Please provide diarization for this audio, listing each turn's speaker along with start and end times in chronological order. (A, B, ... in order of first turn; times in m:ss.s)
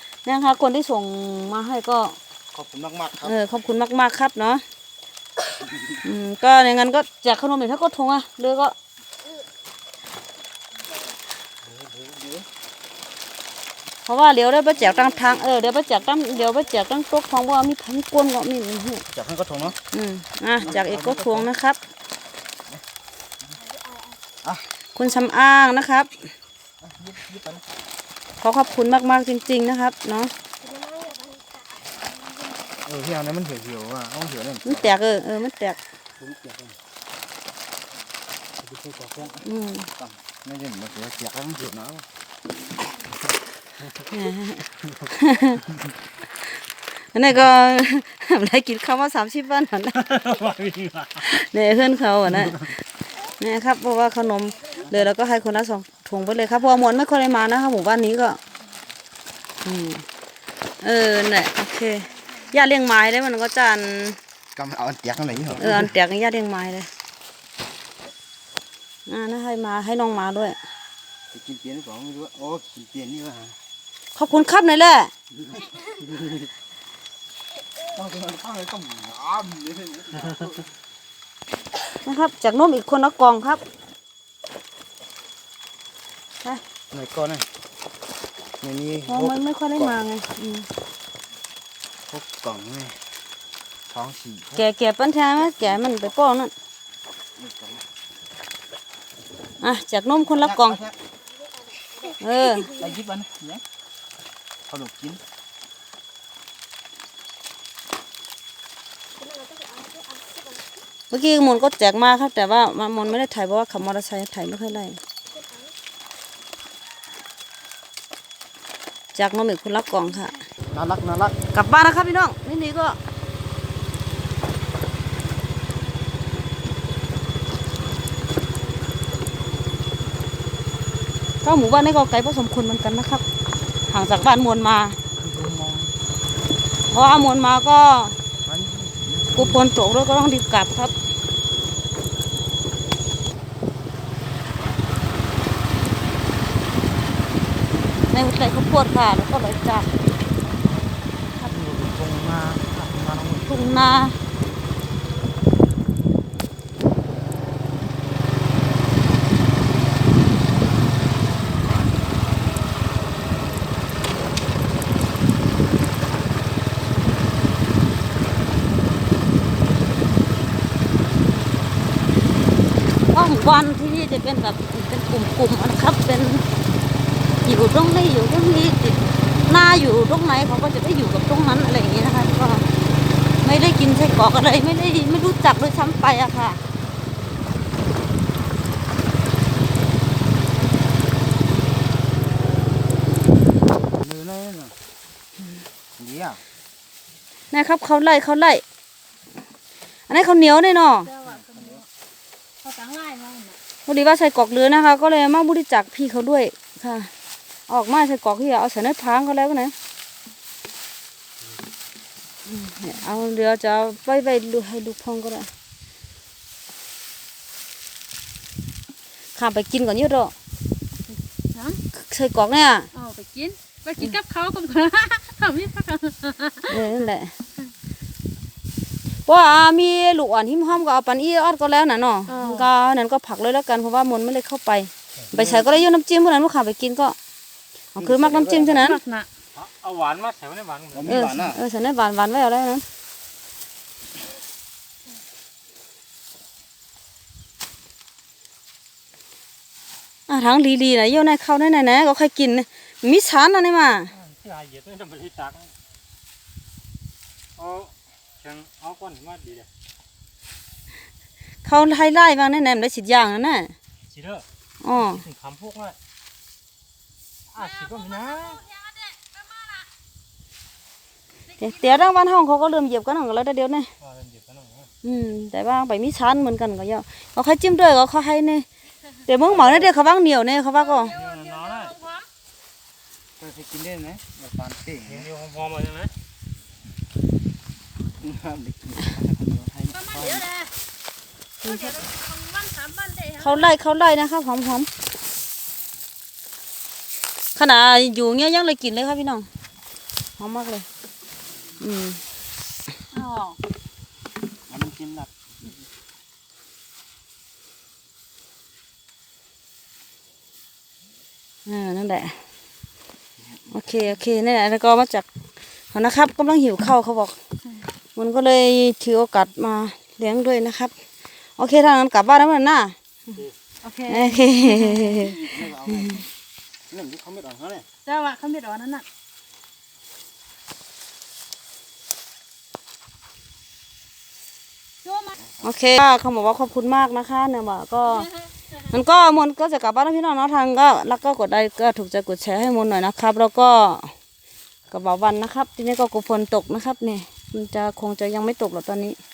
0:00.2-0:02.2 A
0:02.5-0:03.4 B
0:03.2-0:04.6 A
0:06.0-0:08.8 A
0:11.8-0:12.4 C
0:14.0-0:19.1 A
0:19.1-0:19.8 B
0:19.9-0:21.8 A
0:20.6-0:21.4 B
0:23.7-0:24.2 D
0:25.0-0:26.1 A
0:26.8-0:27.6 B
0:28.4-0:30.3 A
0:30.6-0:31.6 D
0:32.8-0:35.0 B
0:34.6-0:35.8 A
0:36.2-0:36.8 C
0:38.6-0:39.4 C
0:39.4-0:39.9 A
0:40.4-0:42.1 B
0:44.1-0:45.6 A
0:47.1-0:50.0 A
0:50.0-0:51.2 C
0:51.2-0:52.8 A
0:53.4-0:58.4 A
0:59.6-1:00.0 A
1:00.8-1:04.2 A
1:04.5-1:05.9 B
1:05.6-1:06.9 A
1:09.1-1:10.6 A
1:11.3-1:13.6 B
1:14.1-1:15.1 A
1:17.9-1:20.6 B
1:22.0-1:23.6 A
1:26.9-1:27.5 B
1:28.6-1:30.0 B
1:29.1-1:30.7 A
1:32.1-1:33.0 B
1:33.9-1:34.6 B
1:34.5-1:36.5 A
1:37.4-1:37.8 B
1:39.6-1:40.8 A
1:40.3-1:41.0 B
1:42.2-1:42.7 A
1:42.7-1:43.6 B
1:44.7-1:45.2 B
1:49.3-1:50.5 D
1:51.1-1:55.0 A
1:59.1-2:00.4 A
2:00.7-2:01.4 B
2:01.5-2:03.0 A
2:11.4-2:13.2 A
2:13.9-2:15.0 A
2:15.2-2:15.9 B
2:16.9-2:18.2 A
2:18.5-2:19.6 B
2:19.3-2:20.9 A
2:28.1-2:29.9 A
2:31.4-2:33.5 B
2:33.5-2:34.2 A
2:53.1-2:56.5 A
2:57.4-3:02.7 A
3:03.4-3:06.6 A
3:13.9-3:14.8 B
3:16.0-3:16.4 B
3:17.5-3:18.6 A
3:20.1-3:21.1 A
3:21.2-3:21.8 D
3:22.6-3:23.6 D
3:23.9-3:27.1 A
3:27.7-3:29.7 A
3:32.5-3:35.5 A
3:39.4-3:40.3 A
3:41.5-3:41.8 D
3:41.9-3:42.9 A
3:42.9-3:46.7 D
3:46.7-3:47.3 A
3:49.2-3:57.2 A
3:52.3-3:52.7 D
3:55.3-3:55.7 B
3:58.0-3:59.0 A
3:58.0-3:59.0 B
3:58.8-3:59.3 D
3:59.5-4:01.2 C
4:00.9-4:01.6 B
4:01.1-4:02.8 A
4:10.3-4:14.1 A
4:14.1-4:15.7 C
4:17.6-4:19.7 C
4:21.6-4:23.8 A
4:24.1-4:24.4 C
4:24.8-4:25.2 A
4:25.1-4:26.0 C
4:27.5-4:28.8 C
4:31.6-4:33.9 A
4:34.0-4:34.9 C
4:35.0-4:38.6 A
4:39.2-4:41.2 A
4:41.1-4:42.0 C
4:41.1-4:42.2 D
4:43.4-4:45.3 B
4:45.2-4:46.1 C
4:48.2-4:50.5 B
4:50.0-4:50.7 D
4:51.6-4:52.0 A
4:51.9-4:53.5 D
4:53.4-4:54.9 A
4:57.6-4:59.5 A
5:00.4-5:00.9 A
5:01.8-5:02.2 A
5:03.1-5:03.6 D
5:04.7-5:05.3 B
5:11.6-5:12.4 A
5:13.7-5:15.2 A
5:15.9-5:17.4 A
5:18.2-5:20.9 A
5:21.6-5:23.0 A
5:23.8-5:25.4 D
5:24.1-5:25.5 A
5:25.4-5:26.2 B
5:26.9-5:27.9 B
5:28.0-5:29.1 D
5:35.0-5:35.4 D
5:35.6-5:44.1 A
5:44.9-5:49.2 A